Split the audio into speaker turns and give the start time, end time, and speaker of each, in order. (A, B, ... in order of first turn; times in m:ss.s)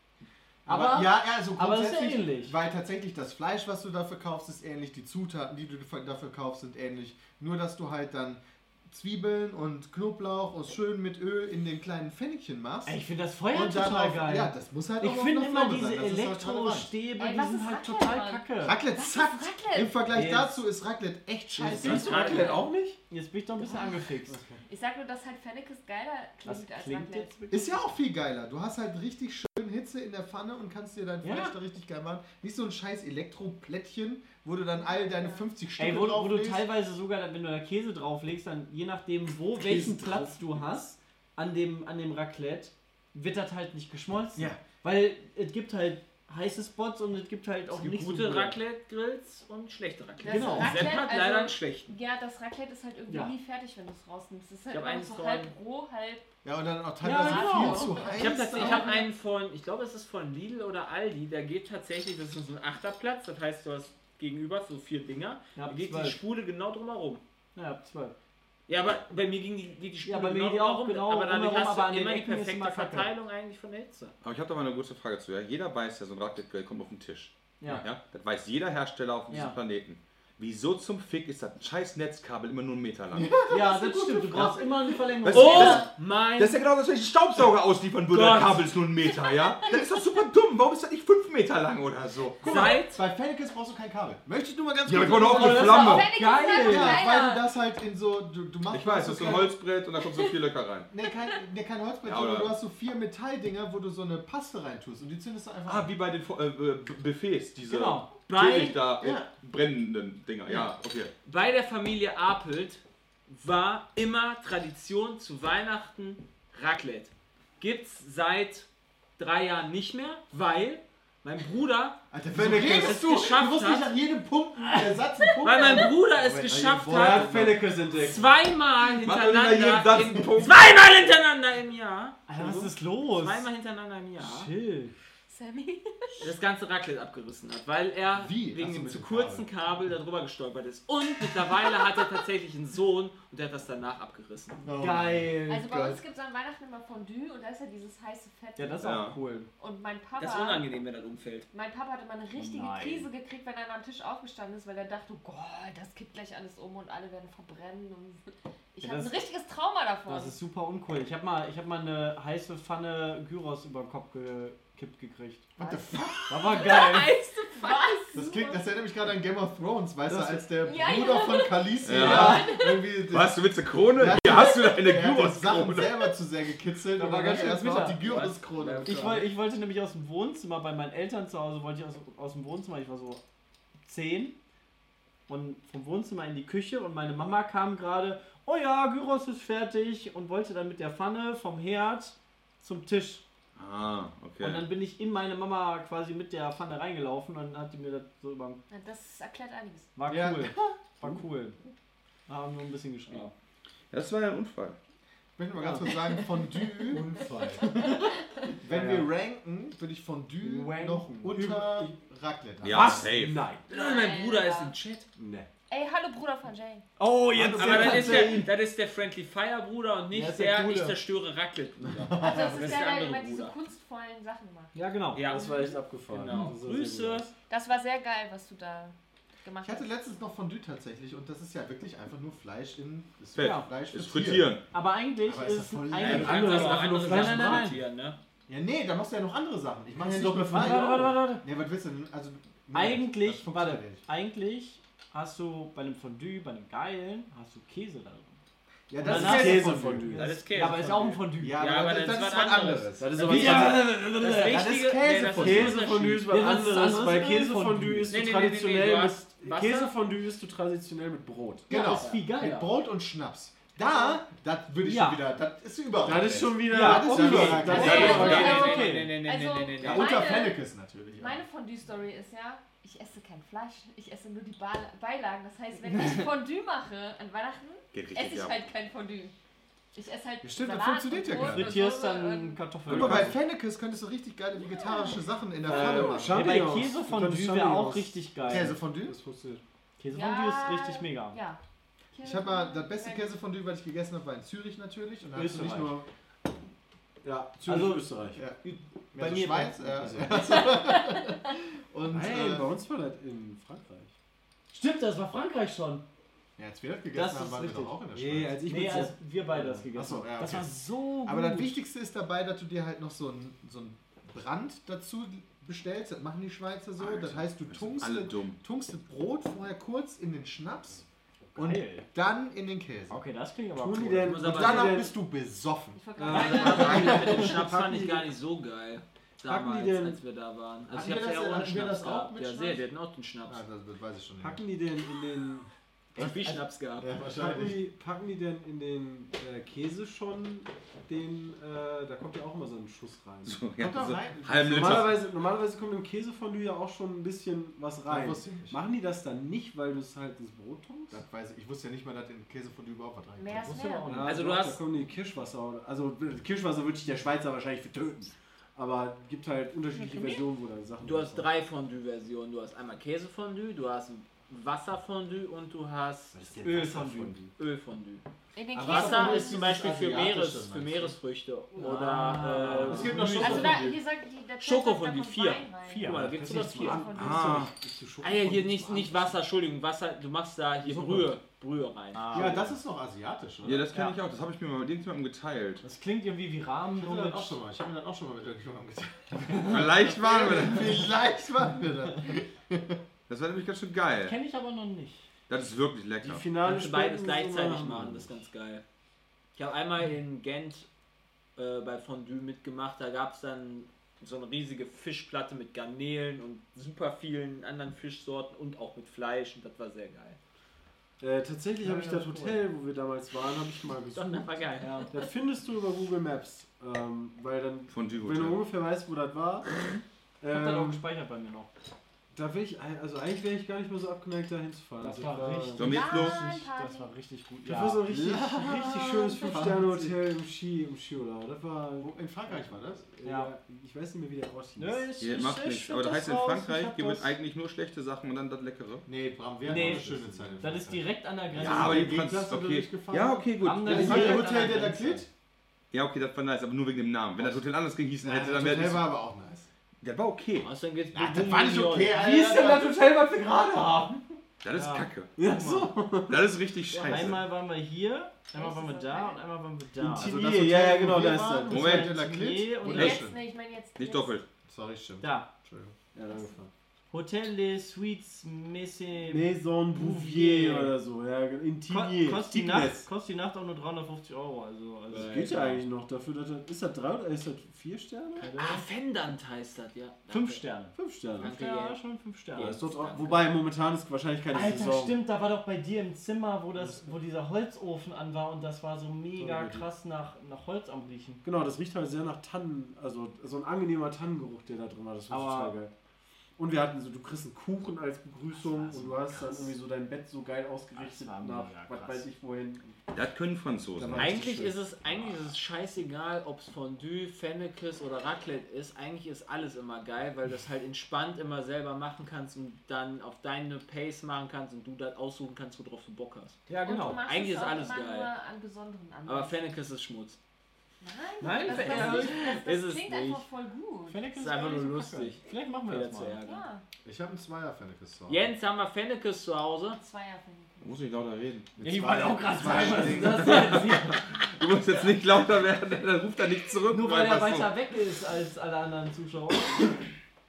0:00.7-0:13.0 A
0:00.7-0:02.6 B
0:12.9-0:18.8 B
0:13.5-0:16.9 A
0:17.2-0:20.0 C
0:18.6-0:22.5 A
0:20.1-0:20.5 D
0:21.6-0:23.0 D
0:21.8-0:22.7 E
0:22.1-0:22.6 C
0:23.1-0:24.4 B
0:23.6-0:24.1 C
0:24.3-0:24.6 D
0:24.7-0:27.4 C
0:26.4-0:27.8 B
0:27.5-0:36.7 A
0:31.2-0:31.6 B
0:34.8-0:35.4 C
0:35.8-0:48.6 B
0:39.7-0:40.3 D
0:47.7-0:51.9 E
0:50.2-0:56.3 C
0:50.3-0:50.9 A
0:53.1-0:53.3 B
0:54.7-0:55.6 E
0:56.4-0:58.9 A
0:57.0-0:59.0 B
0:57.2-0:58.2 C
0:58.2-1:07.2 E
1:05.6-1:06.2 B
1:07.6-1:08.2 B
1:08.7-1:14.1 E
1:10.0-1:13.1 B
1:14.2-1:23.4 F
1:17.6-1:17.9 B
1:19.3-1:19.6 B
1:23.1-1:25.0 A
1:23.5-1:25.8 B
1:25.2-1:32.8 F
1:25.3-1:26.6 E
1:28.1-1:28.7 E
1:32.4-1:33.0 E
1:32.4-1:35.9 A
1:34.9-1:36.1 F
1:35.3-1:37.0 B
1:35.5-1:37.5 C
1:36.5-1:39.6 A
1:38.7-1:40.9 F
1:40.9-1:45.9 A
1:42.0-1:42.5 F
1:45.7-1:51.1 F
1:47.6-1:48.1 B
1:48.3-1:48.8 E
1:49.0-1:49.3 A
1:51.2-2:02.0 E
2:02.1-2:07.7 A
2:02.3-2:03.0 D
2:02.5-2:03.9 E
2:05.4-2:07.4 E
2:06.9-2:08.3 D
2:07.9-2:14.5 E
2:09.0-2:10.7 F
2:12.3-2:13.5 B
2:14.2-2:14.9 B
2:15.3-2:16.3 C
2:16.2-2:24.6 E
2:18.1-2:19.5 A
2:24.6-2:26.0 A
2:24.8-2:25.7 B
2:25.5-2:29.0 C
2:28.6-2:29.5 B
2:28.8-2:29.2 F
2:29.6-2:30.7 C
2:30.2-2:31.5 E
2:31.5-2:38.2 C
2:32.4-2:33.1 B
2:38.8-2:40.4 C
2:38.8-2:39.2 B
2:40.1-2:47.1 B
2:45.6-2:46.6 A
2:46.5-2:48.6 C
2:48.1-2:53.4 A
2:50.1-2:50.4 B
2:50.6-2:52.8 C
2:51.8-2:56.1 F
2:52.0-2:52.4 B
2:53.9-2:59.2 A
2:57.0-2:58.0 B
2:58.0-2:59.2 E
2:58.8-3:03.2 B
3:03.8-3:04.4 B
3:05.3-3:13.2 B
3:13.6-3:14.7 F
3:14.4-3:18.6 B
3:18.7-3:19.9 C
3:20.0-3:21.6 B
3:20.1-3:21.1 A
3:22.3-3:23.3 B
3:23.9-3:24.8 F
3:25.4-3:27.6 A
3:26.8-3:28.0 D
3:28.6-3:33.0 A
3:28.6-3:29.1 D
3:30.4-3:31.4 B
3:31.3-3:31.9 D
3:32.6-3:33.4 F
3:32.6-3:33.7 D
3:33.7-3:34.7 C
3:33.7-3:35.1 E
3:35.2-3:35.5 D
3:35.7-3:36.9 C
3:37.0-3:38.2 B
3:37.3-3:38.5 A
3:37.6-3:38.4 F
3:37.6-3:43.6 E
3:40.1-3:41.0 B
3:41.9-3:42.9 A
3:42.2-3:44.8 C
3:44.7-3:45.5 B
3:45.2-3:47.3 E
3:45.3-3:47.3 D
3:45.3-3:45.7 C
3:47.5-3:49.9 C
3:49.6-3:54.5 A
3:53.4-3:54.6 F
3:53.4-3:53.7 B
3:54.7-3:57.8 B
3:55.2-3:56.5 A
3:56.0-3:57.8 D
3:56.0-3:58.2 E
3:58.5-4:04.0 A
4:00.0-4:01.2 D
4:00.5-4:01.4 B
4:02.7-4:08.4 B
4:08.9-4:10.1 A
4:09.0-4:10.4 D
4:09.0-4:11.7 B
4:10.2-4:16.3 E
4:11.4-4:13.4 A
4:13.0-4:13.9 D
4:13.3-4:14.6 B
4:14.3-4:15.8 A
4:15.3-4:21.7 D
4:16.3-4:18.2 B
4:18.1-4:19.9 E
4:21.7-4:28.3 A
4:21.7-4:22.7 B
4:21.7-4:22.0 C
4:22.0-4:22.7 E
4:23.8-4:24.2 C
4:24.8-4:25.2 B
4:26.0-4:28.5 D
4:26.7-4:29.2 B
4:27.8-4:30.1 E
4:27.8-4:30.6 C
4:27.8-4:28.6 F
4:29.8-4:31.4 A
4:31.2-4:39.4 C
4:35.9-4:36.2 F
4:37.9-4:38.6 F
4:39.9-4:42.6 C
4:40.4-4:41.8 A
4:41.3-4:43.4 B
4:42.9-4:46.5 A
4:42.9-4:43.3 F
4:44.6-4:45.3 C
4:45.6-4:49.6 D
4:45.6-4:48.8 B
4:48.5-4:49.2 A
4:50.0-4:51.4 B
4:50.1-4:51.6 C
4:52.1-4:53.4 C
4:52.2-4:56.1 A
4:55.4-4:55.9 B
4:55.6-4:56.0 D
4:57.2-4:58.4 D
4:57.7-4:58.1 B
4:58.4-5:02.7 A
4:59.2-4:59.9 B
4:59.9-5:00.4 D
5:02.1-5:04.1 D
5:04.7-5:06.0 B
5:06.6-5:08.6 A
5:07.1-5:08.0 B
5:08.1-5:10.0 D
5:08.7-5:11.8 B
5:09.9-5:10.7 A
5:11.2-5:23.2 A
5:17.0-5:18.6 F
5:21.5-5:22.1 B
5:23.1-5:24.5 B
5:23.8-5:25.1 D
5:24.2-5:25.1 E
5:24.4-5:27.6 A
5:26.0-5:27.4 C
5:26.2-5:28.3 D
5:26.3-5:33.6 E
5:29.4-5:30.2 D
5:30.9-5:32.8 A
5:33.5-5:34.6 A
5:34.4-5:35.7 D
5:36.2-5:37.1 E
5:36.2-5:36.6 D
5:37.0-5:37.8 A
5:37.2-5:43.6 D
5:43.4-5:45.2 F
5:43.8-5:45.2 A
5:44.6-5:51.2 D
5:48.1-5:48.8 A
5:51.1-5:54.1 A
5:53.4-5:54.1 C
5:53.6-5:54.4 B
5:54.1-6:01.5 D
5:54.2-5:54.8 E
5:59.9-6:00.4 C
6:01.0-6:06.4 E
6:06.3-6:07.5 D
6:06.6-6:07.4 B
6:07.6-6:08.2 E
6:08.6-6:09.7 C
6:08.7-6:11.2 A
6:08.8-6:13.8 E
6:11.8-6:13.7 B
6:11.8-6:14.0 D
6:12.9-6:13.9 A
6:13.3-6:17.7 C
6:14.6-6:17.2 E
6:15.8-6:16.6 B
6:16.2-6:19.3 D
6:17.1-6:17.7 F
6:18.2-6:22.6 E
6:20.9-6:21.2 D
6:22.1-6:22.7 B
6:22.3-6:24.1 A
6:23.6-6:25.8 F
6:25.8-6:27.6 B
6:27.0-6:33.0 A
6:29.5-6:29.8 B
6:29.6-6:31.1 F
6:33.3-6:34.4 F
6:34.2-6:35.3 B
6:35.5-6:36.5 F
6:36.2-6:38.4 D
6:36.6-6:38.8 E
6:39.6-6:40.9 E
6:41.6-6:50.4 E
6:51.2-6:54.5 D
6:51.8-6:52.6 B
6:54.1-6:55.1 E
6:54.8-6:55.1 B
6:55.1-6:59.7 D
6:57.9-6:58.6 F
7:00.4-7:01.0 D
7:00.5-7:01.7 B
7:02.3-7:06.0 D
7:05.0-7:08.1 B
7:05.8-7:06.4 F
7:05.8-7:07.1 C
7:07.6-7:15.2 D
7:08.1-7:10.1 A
7:12.0-7:13.0 A
7:13.2-7:13.5 B
7:14.8-7:17.4 B
7:15.2-7:19.1 F
7:19.1-7:25.3 A
7:19.7-7:20.8 D
7:19.7-7:22.2 B
7:21.6-7:24.6 F
7:21.9-7:22.2 D
7:23.6-7:25.2 B
7:23.9-7:24.2 D
7:25.9-7:29.0 F
7:28.2-7:29.7 A
7:30.0-7:30.7 F
7:30.6-7:32.2 E
7:31.1-7:34.2 A
7:34.6-7:37.4 F
7:34.7-7:35.1 B
7:35.4-7:36.5 D
7:37.0-7:40.4 B
7:38.5-7:39.4 C
7:40.0-7:41.9 D
7:40.2-7:43.4 A
7:41.7-7:43.2 B
7:41.7-7:42.2 F
7:42.8-7:44.4 C
7:44.0-7:44.5 F
7:44.6-7:45.9 A
7:45.2-7:45.5 B
7:46.1-7:46.7 D
7:47.1-7:51.0 B
7:49.2-7:53.1 D
7:51.9-7:55.8 B
7:55.1-7:58.5 D
7:58.4-7:58.8 B
7:58.6-8:00.6 E
8:00.3-8:02.8 B
8:01.0-8:01.5 D
8:01.4-8:02.0 E
8:02.5-8:03.5 E
8:02.6-8:05.2 D
8:04.5-8:11.4 B
8:06.8-8:07.2 D
8:09.4-8:09.8 D
8:11.4-8:15.9 D
8:15.3-8:15.8 B
8:16.6-8:23.0 D
8:18.6-8:19.7 B
8:20.9-8:22.3 B
8:23.1-8:24.4 F
8:24.0-8:24.8 D
8:24.2-8:36.6 E
8:36.7-8:37.2 B
8:36.8-8:39.6 C
8:37.3-8:38.3 E
8:39.3-8:40.4 E
8:41.0-8:44.2 C
8:41.4-8:42.6 B
8:41.6-8:43.4 E
8:44.1-8:46.4 B
8:44.4-8:46.6 E
8:46.4-8:46.8 C
8:47.0-8:48.5 A
8:48.3-8:50.0 E
8:50.0-8:51.0 C
8:50.8-8:51.7 F
8:51.8-8:53.8 A
8:51.8-8:54.3 B
8:52.9-8:57.7 F
8:56.9-9:00.0 B